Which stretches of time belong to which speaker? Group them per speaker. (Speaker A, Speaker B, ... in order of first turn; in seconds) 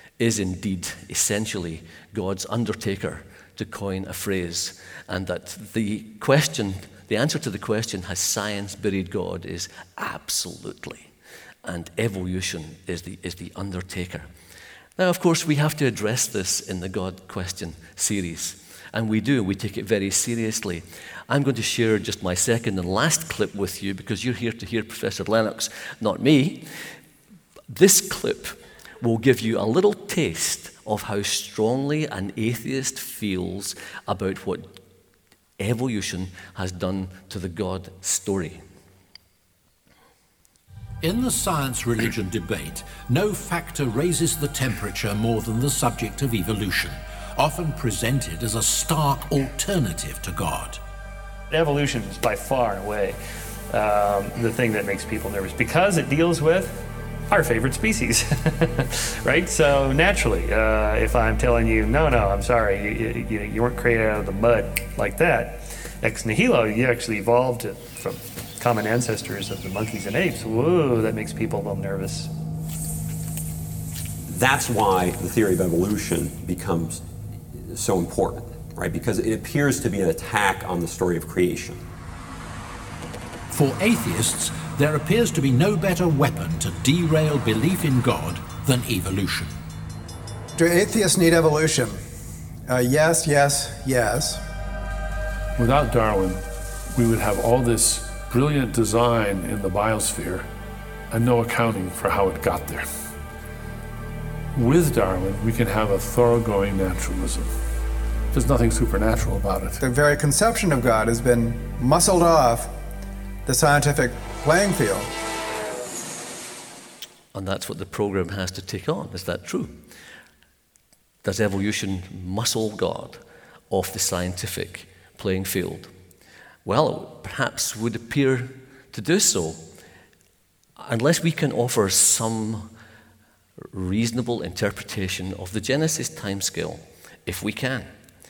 Speaker A: 0.2-11.1, 11.6-14.3, 15.0-26.7, 27.7-34.8, 35.6-38.6, 117.3-119.8, 121.2-125.9, 126.6-129.6, 130.8-132.7, 133.7-137.9
Speaker B: 41.0-50.8, 83.5-89.5
Speaker C: 51.5-53.2, 53.7-72.3
Speaker D: 74.2-77.0, 77.5-81.8
Speaker E: 90.5-92.0, 92.7-94.4, 109.8-112.7, 113.5-115.1
Speaker F: 95.6-96.4, 96.9-100.5, 101.1-102.8, 104.5-107.5, 108.3-109.8